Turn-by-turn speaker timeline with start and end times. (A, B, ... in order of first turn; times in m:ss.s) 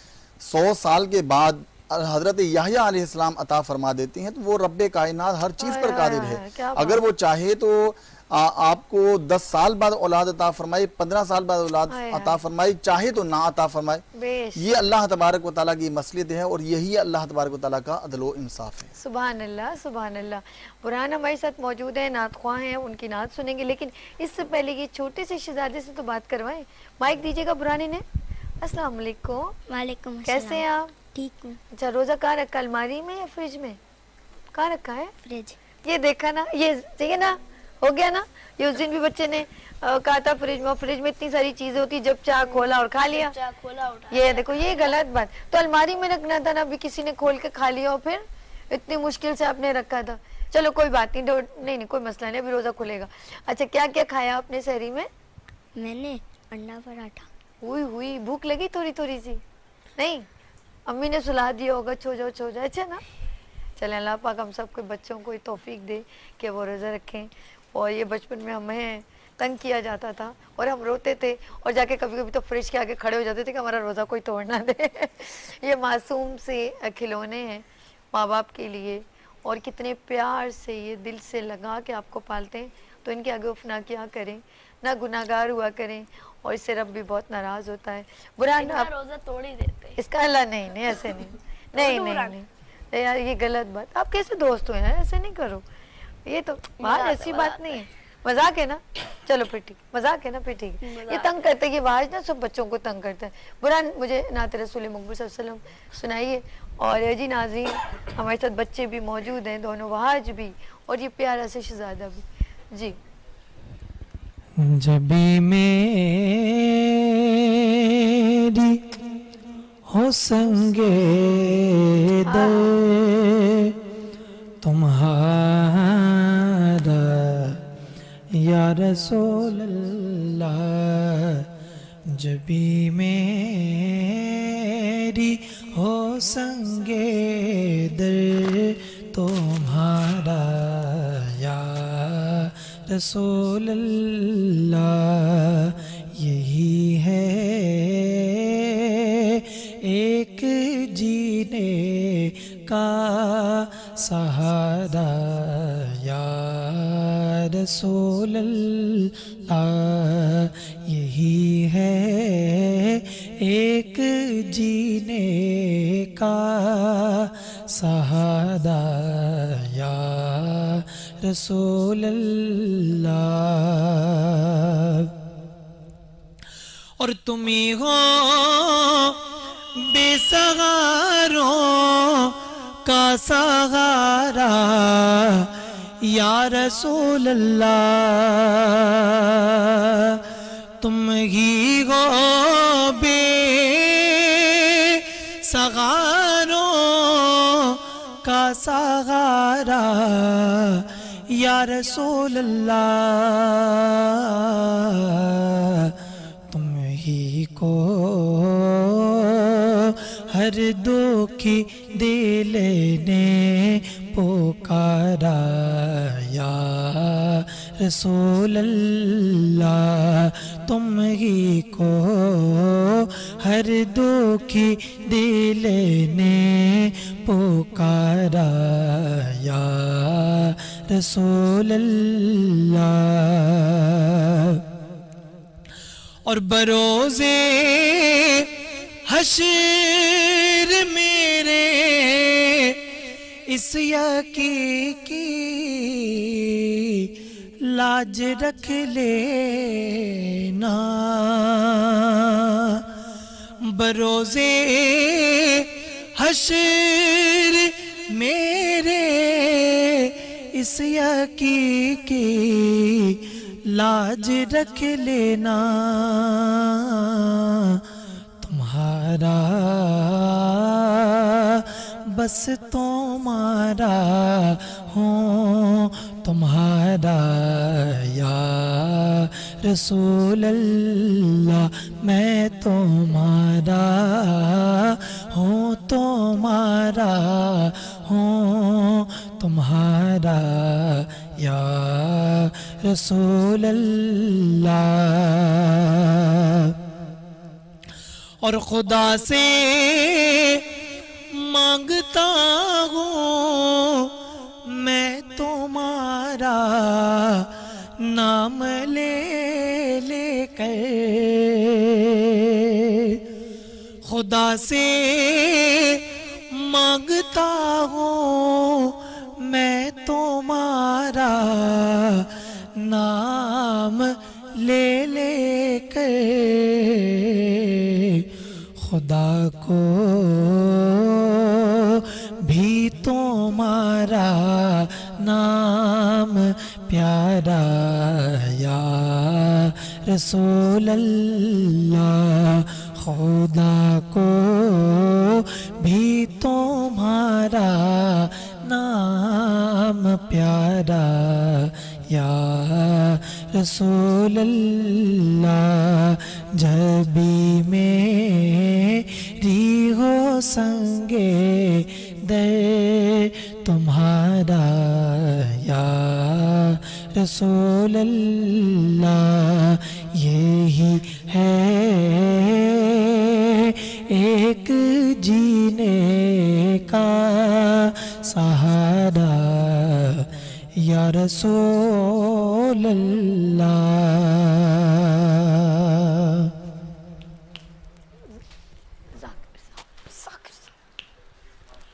0:00.4-0:18.9 A
0:05.6-0:07.0 B
0:11.9-0:12.4 B
0:14.2-0:14.6 B
0:19.0-0:28.0 B
0:28.6-0:29.6 B
0:29.7-0:31.6 C
0:30.2-0:31.0 B
0:31.7-0:33.8 B
0:34.5-0:35.1 B
0:35.2-0:35.6 C
0:35.8-0:43.4 B
0:42.5-0:45.0 D
0:44.1-0:55.1 B
0:55.8-0:57.3 C
0:57.6-0:59.4 B
1:00.0-1:00.3 B
1:00.9-1:03.0 B
1:03.8-1:28.9 B
1:28.6-1:30.0 D
1:30.0-1:35.6 B
1:31.7-1:32.4 D
1:36.3-1:53.0 B
1:36.8-1:37.8 D
1:40.8-1:41.5 D
1:54.6-1:58.8 E
1:59.9-2:03.7 E
2:02.2-2:02.8 B
2:04.6-2:07.6 E
2:08.3-2:11.5 E
2:12.1-2:55.1 E
2:57.0-2:59.2 E
2:59.8-3:10.2 E
3:10.8-3:26.0 E
3:26.5-3:54.6 E
3:56.2-3:58.5 E
3:59.1-4:02.8 E
4:03.5-4:07.1 E
4:07.6-4:12.8 E
4:13.6-4:27.8 E
4:28.4-4:56.8 E
4:58.4-5:00.7 E
5:01.3-5:04.1 E
5:04.7-5:13.2 E
5:14.0-5:28.3 E
5:28.8-6:26.5 E
6:29.2-6:30.7 B